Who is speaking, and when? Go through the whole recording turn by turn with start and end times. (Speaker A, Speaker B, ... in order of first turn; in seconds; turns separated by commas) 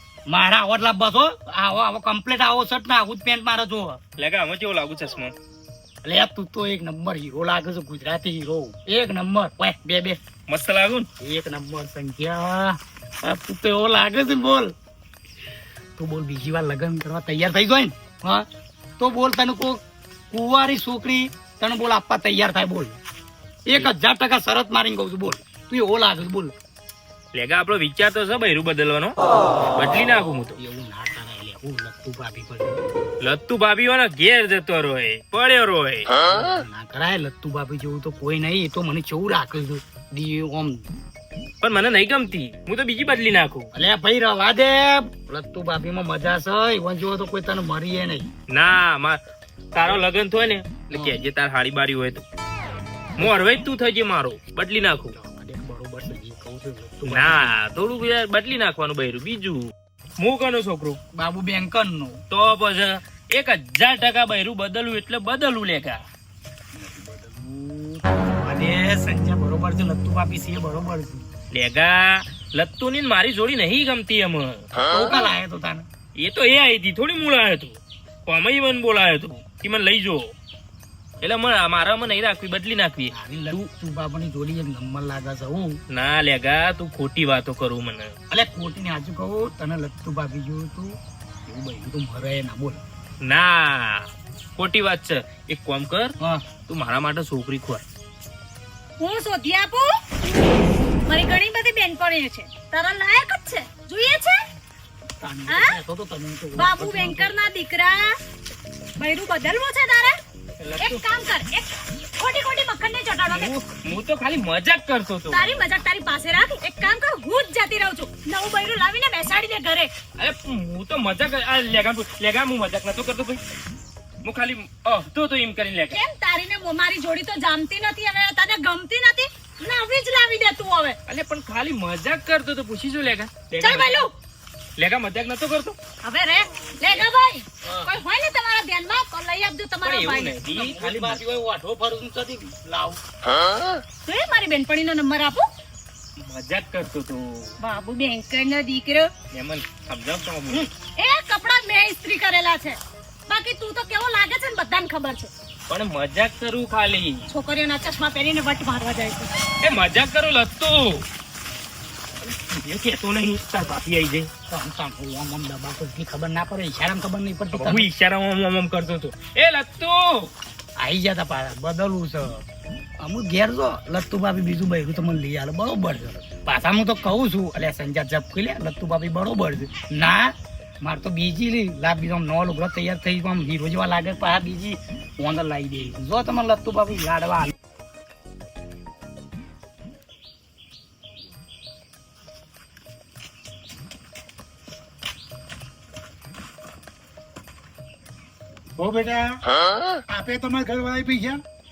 Speaker A: 0.3-4.0, Speaker B: 4.2-5.3, Speaker A: 6.0-10.2, Speaker B: 10.5-11.1, Speaker A: 11.2-14.7, Speaker A: 16.0-18.5, Speaker A: 19.0-23.0, Speaker A: 23.7-26.5, Speaker B: 27.3-29.2, Speaker B: 29.8-30.6, Speaker A: 30.6-32.8, Speaker B: 33.2-36.1, Speaker A: 36.2-40.9, Speaker B: 41.6-43.7, Speaker A: 43.7-48.3, Speaker B: 48.5-49.2, Speaker B: 49.7-52.2, Speaker B: 53.2-55.1, Speaker A: 55.1-57.5, Speaker B: 57.1-59.7, Speaker B: 60.2-61.0, Speaker A: 61.1-62.2, Speaker B: 62.3-66.0, Speaker A: 66.8-71.3, Speaker B: 71.5-74.7, Speaker A: 74.9-75.9, Speaker B: 76.2-80.3, Speaker B: 81.2-83.7, Speaker A: 83.1-85.8, Speaker B: 85.9-88.1, Speaker A: 88.3-92.8, Speaker B: 93.2-96.2, Speaker B: 96.7-97.8, Speaker C: 99.0-99.9, Speaker C: 101.1-104.4, Speaker A: 105.2-107.3, Speaker C: 105.5-105.8, Speaker C: 106.6-108.1, Speaker C: 109.0-110.2, Speaker B: 110.6-111.0, Speaker C: 110.8-113.5, Speaker B: 113.3-115.5, Speaker C: 115.3-119.9, Speaker B: 120.2-123.4, Speaker B: 124.2-126.0, Speaker C: 125.9-131.0, Speaker B: 131.1-134.1, Speaker C: 133.6-134.1, Speaker B: 134.8-135.8, Speaker C: 136.0-140.4, Speaker A: 137.6-137.9, Speaker B: 139.8-141.2, Speaker A: 140.4-143.0, Speaker C: 144.1-145.5, Speaker B: 146.2-147.6, Speaker C: 147.6-149.1, Speaker B: 149.3-150.7, Speaker C: 151.0-155.3, Speaker B: 155.7-157.2, Speaker C: 157.3-159.3, Speaker B: 159.6-161.0, Speaker B: 162.5-164.3, Speaker A: 164.5-167.9, Speaker B: 167.5-170.3, Speaker A: 170.8-172.4, Speaker A: 173.0-187.5, Speaker D: 198.8-199.4, Speaker D: 200.1-201.4